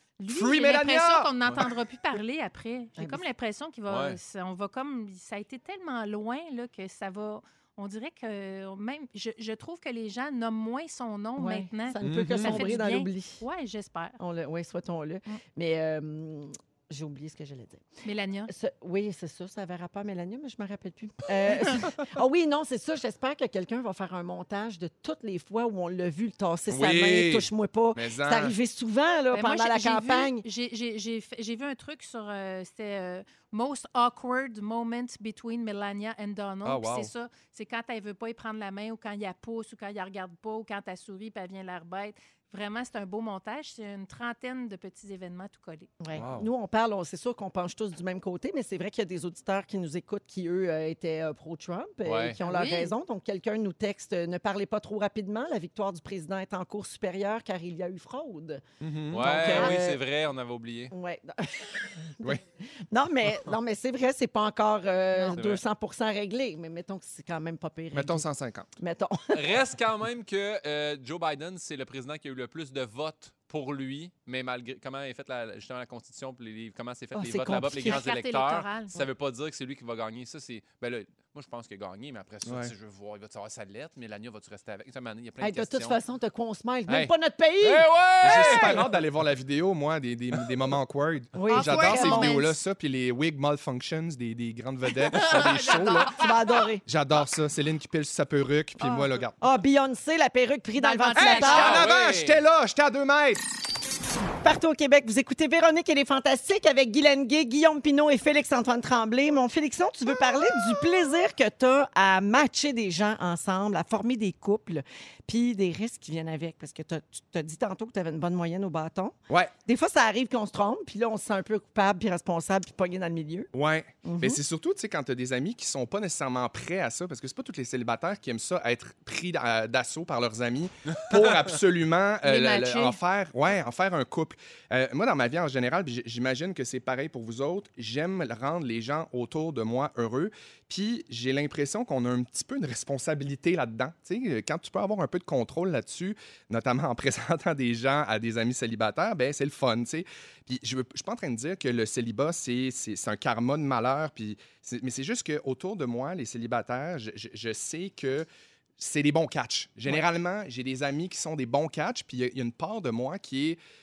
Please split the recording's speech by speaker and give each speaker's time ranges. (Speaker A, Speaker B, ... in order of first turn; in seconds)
Speaker A: 0.2-14.2, 18.0-18.5, 29.3-45.9, 52.4-52.9, 77.8-79.0, 91.5-92.5, 95.0-96.2, 100.8-101.8, 132.2-133.0
Speaker B: 0.3-1.3, 12.1-12.4, 26.7-28.5, 36.6-37.1, 46.1-46.5, 58.8-59.7, 67.9-68.7, 82.4-82.7, 88.2-96.2, 96.8-99.3, 101.2-103.4, 123.5-158.3, 158.8-163.6
Speaker C: 3.0-3.2, 11.4-13.4, 14.2-17.8, 18.5-30.4, 46.0-58.6, 59.2-60.0, 60.9-62.4, 62.9-68.2, 68.8-69.5, 77.1-78.0, 85.4-88.8, 91.3-92.3, 96.2-96.8, 99.4-101.8, 104.4-123.5, 124.0-124.4
Speaker D: 3.9-4.2, 12.0-12.6, 52.0-52.4, 59.1-60.9, 65.3-65.6, 69.3-86.0, 86.9-89.0, 101.3-102.4